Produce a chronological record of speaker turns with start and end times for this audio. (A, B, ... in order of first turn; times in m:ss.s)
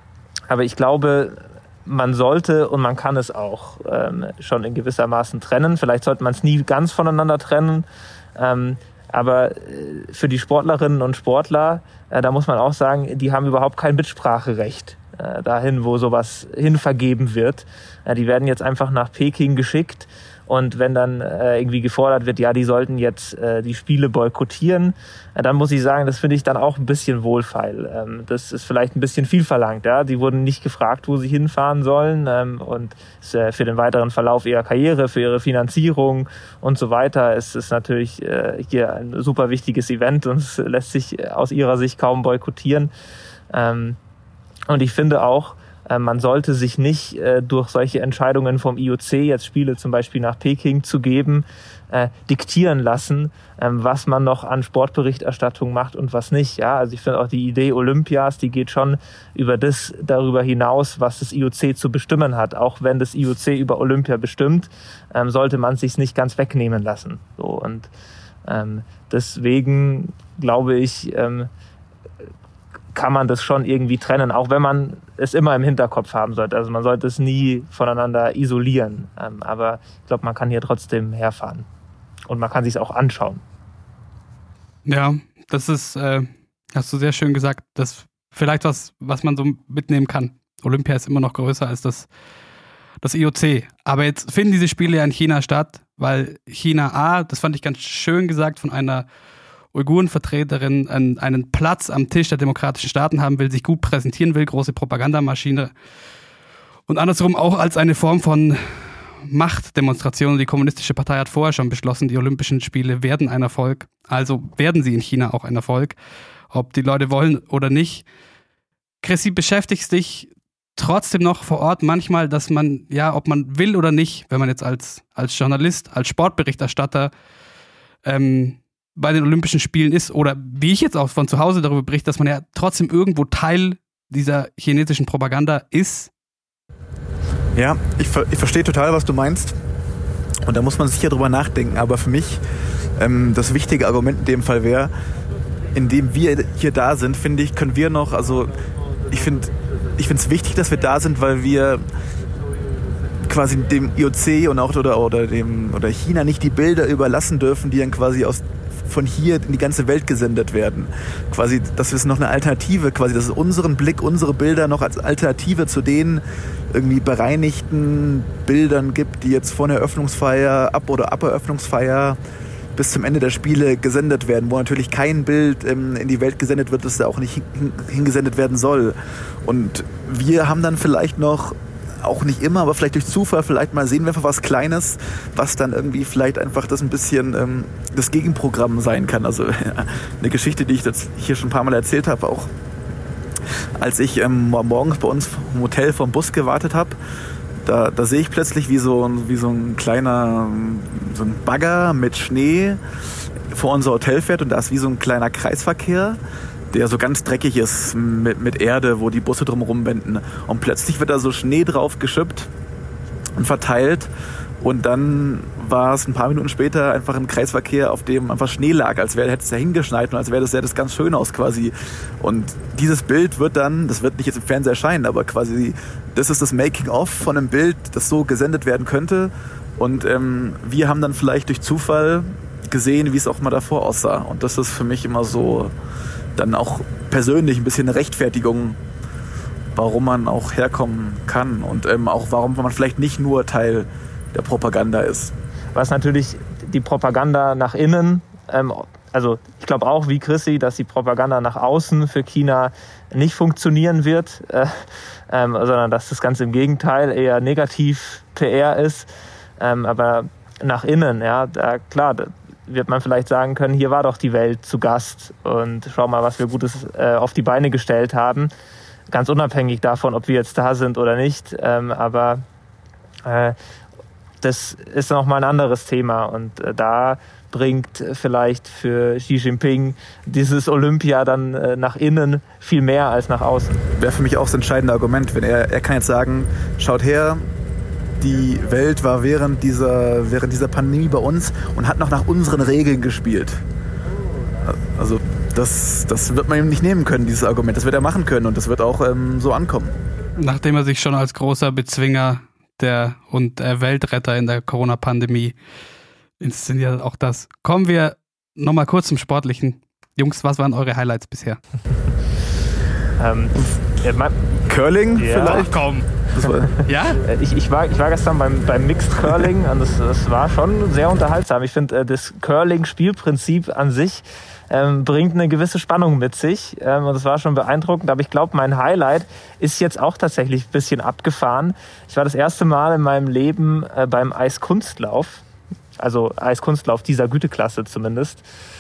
0:00.5-0:42.9 A
0:43.5-0:44.0 A
0:44.7-1:07.9 A
1:08.5-1:11.5 A
1:12.9-1:21.7 A
1:22.3-1:23.4 A
1:24.8-1:32.1 B
1:33.0-1:39.0 B
1:39.7-1:45.7 B
1:46.9-1:56.0 B
1:56.5-1:58.0 B
1:59.0-2:07.1 B
2:08.0-2:16.1 B
2:17.5-2:19.5 C
2:20.4-2:22.4 C
2:23.0-2:24.9 C
2:25.8-2:28.6 C
2:29.1-2:31.8 C
2:33.2-2:52.2 C
2:52.8-3:12.5 C
3:13.8-3:17.0 C
3:17.6-3:22.8 C
3:23.5-3:26.2 C
3:26.7-3:32.5 C
3:33.4-3:34.1 C
3:34.6-3:55.7 C
3:56.4-3:58.8 C
3:59.7-4:05.3 C
4:05.7-4:28.5 A
4:29.1-4:32.4 A
4:33.2-4:33.6 A
4:34.4-4:43.8 A
4:44.0-4:47.5 C
4:48.2-4:53.6 C
4:54.6-4:59.9 C
5:00.4-5:05.5 B
5:06.4-5:11.6 B
5:13.2-5:14.4 A
5:14.7-5:15.8 C
5:15.1-5:15.8 A
5:15.5-5:16.0 B
5:16.3-5:16.8 C
5:16.8-5:17.2 B
5:17.2-5:35.4 A
5:36.0-5:38.4 A